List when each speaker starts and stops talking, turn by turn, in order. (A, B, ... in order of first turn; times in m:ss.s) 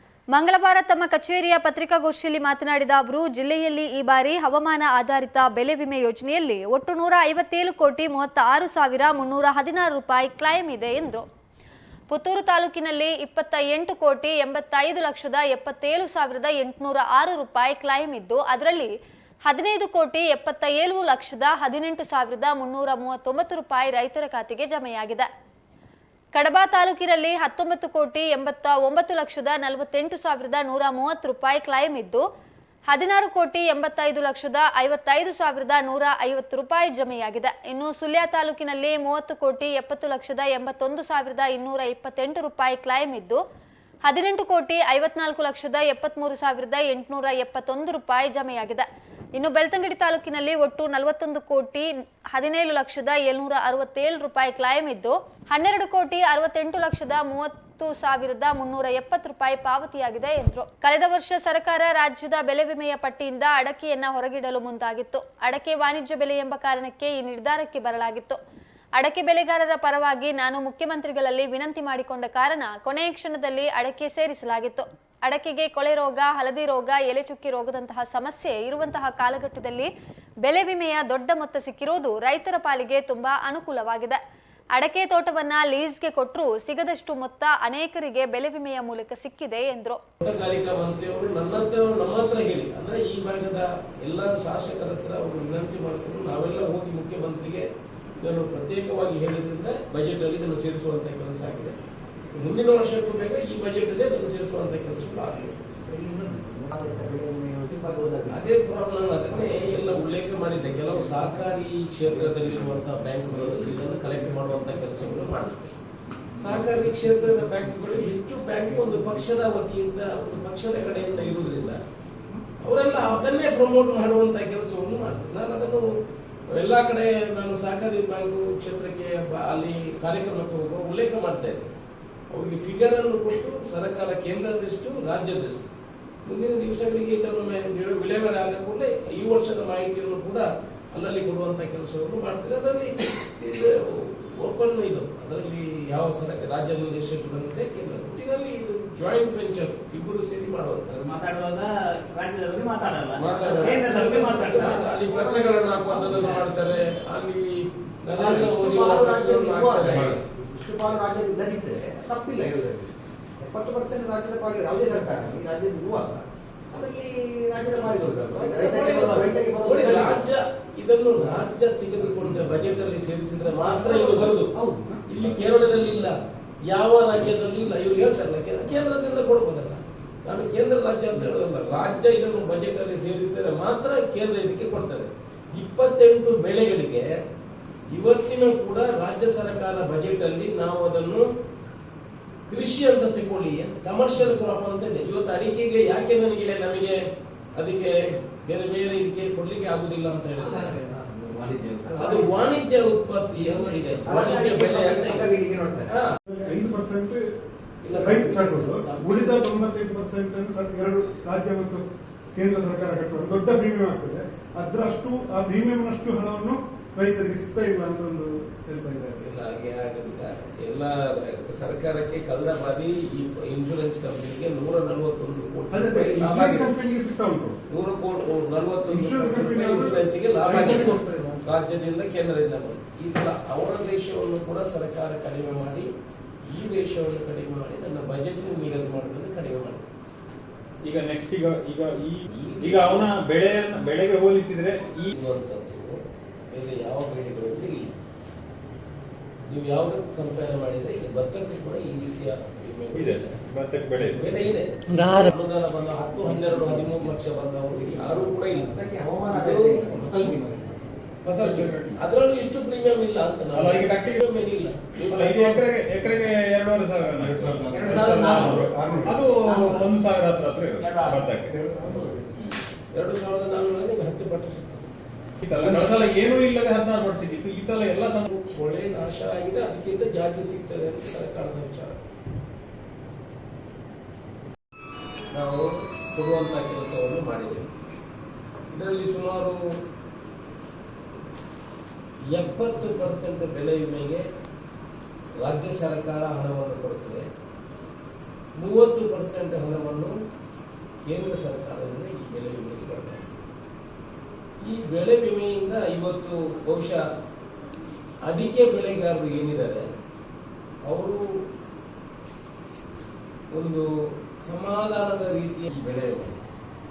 0:00.3-0:11.2 A
0:12.1-0:18.9 A
0:19.4-0:25.3 A
0:26.3-0:32.2 A
0:32.9-0:43.4 A
0:44.0-1:08.4 A
1:09.0-1:19.9 A
1:20.4-1:24.2 A
1:24.7-1:30.0 A
1:30.2-1:37.6 B
1:38.2-1:41.8 B
1:42.3-1:45.6 B
1:45.8-1:48.4 C
1:48.3-1:55.7 B
1:56.3-2:01.8 B
2:02.6-2:05.9 B
2:06.5-2:11.7 B
2:12.3-2:15.7 B
2:16.2-2:31.1 B
2:30.9-2:33.3 D
2:33.1-2:40.2 B
2:33.3-2:36.6 C
2:33.8-2:34.7 D
2:38.2-2:50.2 C
2:47.8-2:54.5 B
2:53.5-2:55.2 C
2:55.1-2:56.1 B
2:56.7-3:07.2 B
3:07.9-3:11.2 B
3:12.5-3:17.0 B
3:17.5-3:20.8 B
3:20.4-3:22.4 C
3:22.0-3:25.3 B
3:24.0-3:25.9 C
3:26.2-3:27.2 E
3:27.8-3:29.4 B
3:27.9-3:39.2 E
3:39.2-3:46.7 B
3:45.7-3:47.6 E
3:47.7-3:55.9 B
3:48.8-3:51.4 E
3:56.5-3:59.8 B
4:00.8-4:05.1 F
4:02.3-4:03.1 B
4:05.1-4:05.9 B
4:06.5-4:07.9 B
4:09.5-4:13.3 B
4:12.9-4:14.4 F
4:14.2-4:20.4 B
4:15.0-4:15.3 D
4:16.0-4:17.1 C
4:17.9-4:21.1 C
4:21.2-4:25.6 B
4:21.4-4:22.0 F
4:23.5-4:24.2 F
4:25.0-4:31.5 F
4:27.2-4:29.2 E
4:27.7-4:29.8 C
4:30.8-4:31.2 C
4:31.5-4:32.3 E
4:32.9-4:34.9 B
4:35.4-4:38.2 F
4:38.2-4:42.0 B
4:45.3-4:47.7 B
4:48.7-4:49.6 B
4:52.3-4:54.2 B
4:55.4-4:57.2 B
4:58.6-5:00.1 B
5:01.0-5:03.2 B
5:04.6-5:07.0 B
5:08.2-5:09.8 B
5:10.8-5:11.2 B
5:13.5-5:13.8 B
5:14.4-5:16.4 B